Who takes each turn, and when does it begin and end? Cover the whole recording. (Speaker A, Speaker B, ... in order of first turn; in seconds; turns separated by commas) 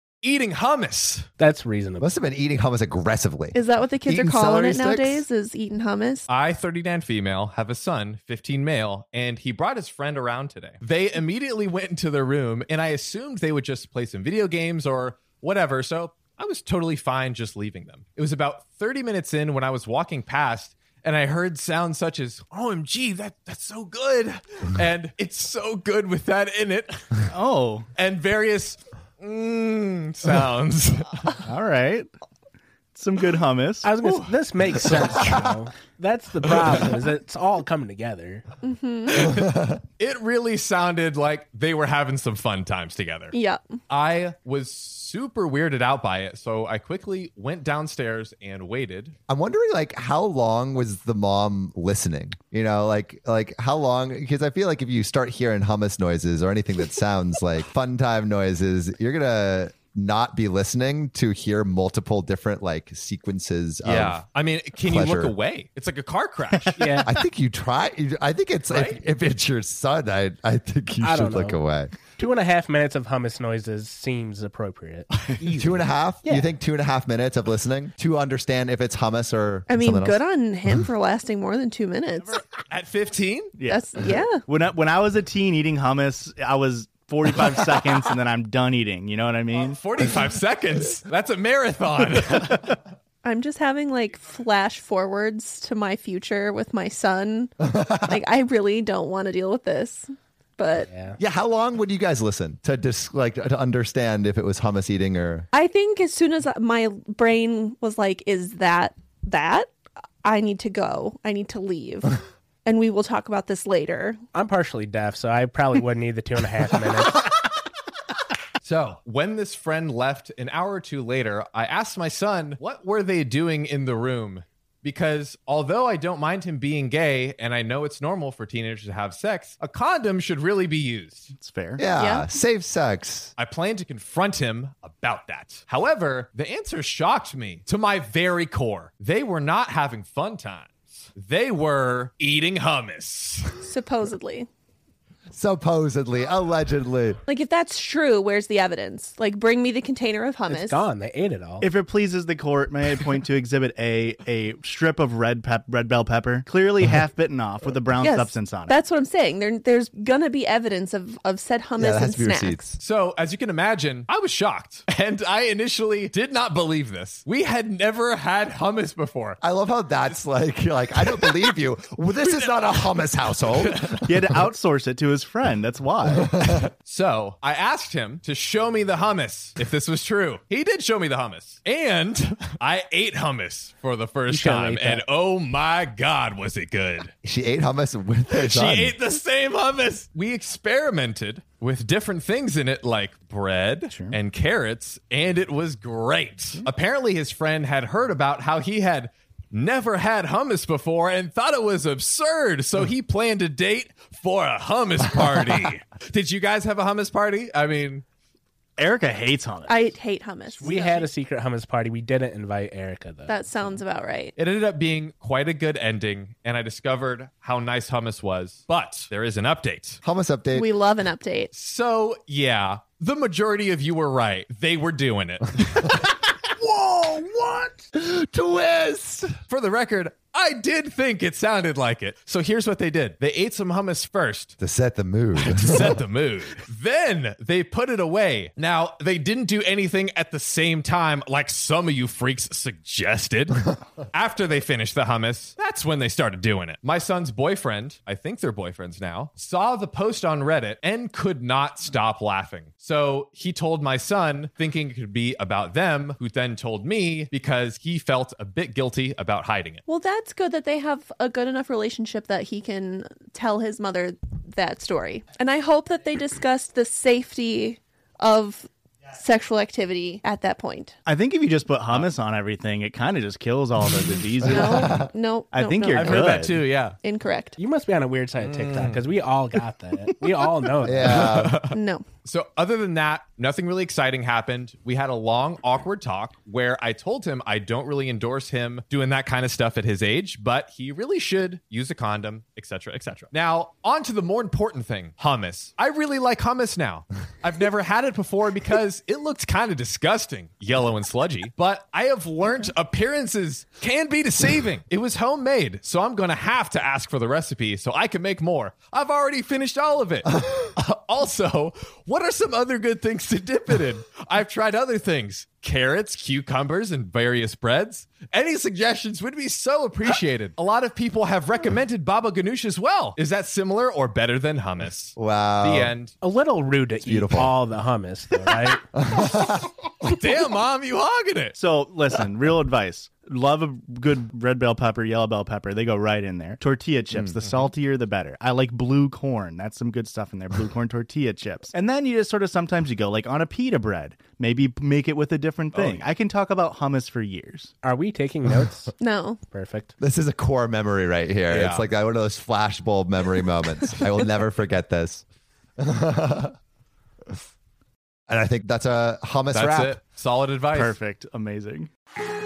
Speaker A: 0.2-1.3, Speaker B: 1.4-2.1, Speaker C: 2.0-5.2, Speaker D: 3.5-6.3, Speaker A: 6.3-27.2, Speaker E: 27.3-27.9, Speaker A: 28.0-31.4, Speaker E: 31.4-32.1, Speaker E: 32.9-33.9, Speaker B: 33.8-38.5, Speaker A: 34.0-34.3, Speaker D: 38.6-39.3, Speaker A: 39.1-43.4, Speaker C: 39.4-39.8, Speaker D: 43.3-43.6, Speaker A: 43.9-49.1, Speaker C: 49.3-64.2, Speaker A: 63.8-66.9, Speaker C: 64.8-65.3, Speaker B: 66.8-67.1, Speaker C: 67.0-72.0, Speaker A: 68.7-69.0, Speaker B: 71.0-76.5, Speaker C: 75.6-80.2, Speaker D: 79.7-82.5, Speaker A: 82.7-83.5, Speaker E: 83.6-83.8, Speaker D: 83.7-84.4, Speaker E: 84.5-90.2, Speaker A: 89.6-92.8, Speaker D: 93.2-100.9, Speaker C: 97.7-98.2, Speaker B: 100.8-101.2, Speaker C: 101.2-105.5, Speaker D: 105.5-109.7, Speaker D: 110.2-114.2, Speaker B: 114.3-117.3, Speaker A: 118.6-131.3, Speaker E: 131.3-131.8, Speaker C: 131.8-133.3, Speaker D: 131.9-132.3, Speaker A: 133.4-143.6, Speaker D: 143.6-144.5, Speaker C: 145.3-147.2, Speaker D: 147.3-150.8, Speaker B: 150.5-151.7, Speaker E: 151.6-158.7, Speaker D: 158.0-162.8, Speaker C: 161.8-162.8, Speaker A: 162.8-169.4, Speaker C: 169.4-174.1, Speaker A: 172.3-172.7, Speaker A: 173.6-174.0, Speaker E: 174.0-176.3, Speaker C: 176.1-176.6, Speaker A: 176.8-187.1, Speaker B: 184.3-185.0, Speaker C: 187.2-189.0, Speaker A: 188.3-208.0, Speaker E: 193.9-194.2, Speaker E: 208.8-209.8, Speaker D: 209.7-211.1, Speaker B: 210.6-213.8, Speaker D: 213.3-214.3, Speaker A: 214.4-220.0, Speaker C: 220.0-220.7, Speaker D: 220.6-221.5, Speaker A: 221.5-226.2, Speaker C: 226.7-227.4, Speaker C: 227.9-229.3, Speaker A: 229.5-234.6, Speaker C: 234.6-235.9, Speaker A: 235.4-259.8, Speaker D: 259.9-271.0, Speaker E: 271.1-276.6, Speaker C: 274.4-275.1, Speaker D: 274.6-276.1, Speaker A: 275.9-277.0, Speaker D: 277.0-277.6, Speaker B: 277.6-281.4, Speaker A: 278.4-279.0, Speaker C: 280.8-281.6, Speaker A: 281.0-326.1, Speaker D: 281.7-282.1, Speaker C: 325.2-325.9, Speaker B: 326.2-328.8, Speaker C: 327.0-327.5, Speaker C: 328.9-329.7, Speaker A: 330.0-331.6, Speaker E: 331.6-347.7, Speaker A: 345.7-346.1, Speaker B: 347.8-348.9, Speaker D: 349.0-349.4, Speaker B: 349.5-349.9, Speaker C: 350.0-355.2, Speaker A: 351.5-351.9, Speaker C: 355.8-356.6, Speaker C: 358.3-360.0, Speaker A: 359.5-361.0, Speaker E: 360.7-361.9